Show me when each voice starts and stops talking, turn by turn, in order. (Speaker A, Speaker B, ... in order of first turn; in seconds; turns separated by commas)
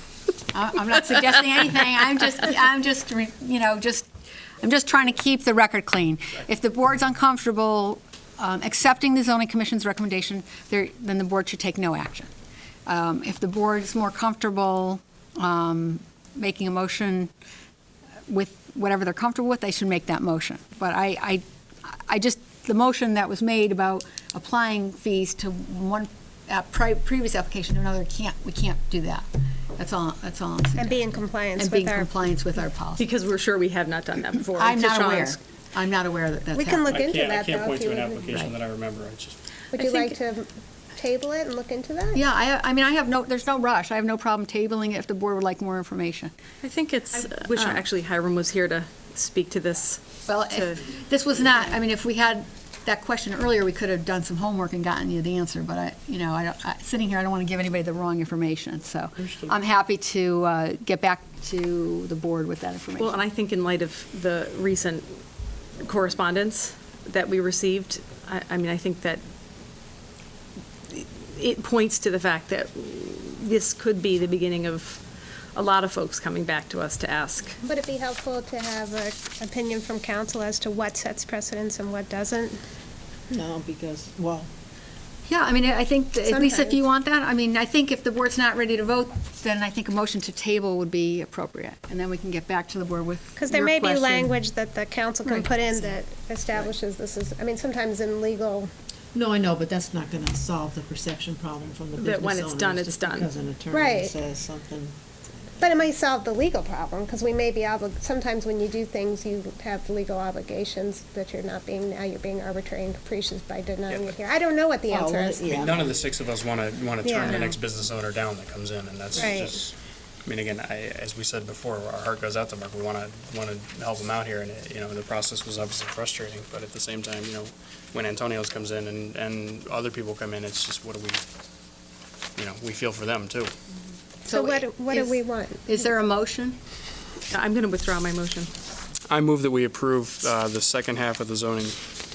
Speaker A: 0.5-4.1, Speaker A: 4.6-12.3, Speaker A: 12.8-17.3, Speaker A: 18.3-33.0, Speaker B: 30.8-32.1, Speaker C: 33.0-35.4, Speaker A: 34.5-36.9, Speaker B: 36.5-38.5, Speaker D: 36.9-39.4, Speaker B: 39.7-42.2, Speaker A: 39.8-40.1, Speaker A: 42.1-46.3, Speaker C: 46.6-50.8, Speaker A: 50.3-63.2, Speaker C: 63.0-65.1, Speaker C: 65.8-69.2, Speaker C: 70.9-75.0, Speaker C: 75.5-77.6, Speaker B: 77.6-82.6, Speaker E: 83.3-84.5, Speaker A: 85.2-94.3, Speaker B: 86.2-86.8, Speaker B: 93.4-98.7, Speaker A: 95.2-95.6, Speaker E: 99.1-105.0, Speaker C: 102.0-103.3, Speaker B: 103.7-104.1, Speaker B: 105.6-115.7, Speaker D: 113.9-114.1, Speaker E: 114.9-116.0, Speaker D: 115.5-119.7, Speaker B: 117.0-117.5, Speaker B: 119.1-119.5, Speaker D: 120.2-131.2, Speaker D: 132.3-133.5, Speaker A: 134.2-136.6, Speaker B: 134.3-135.8, Speaker C: 137.3-138.5, Speaker D: 139.1-141.8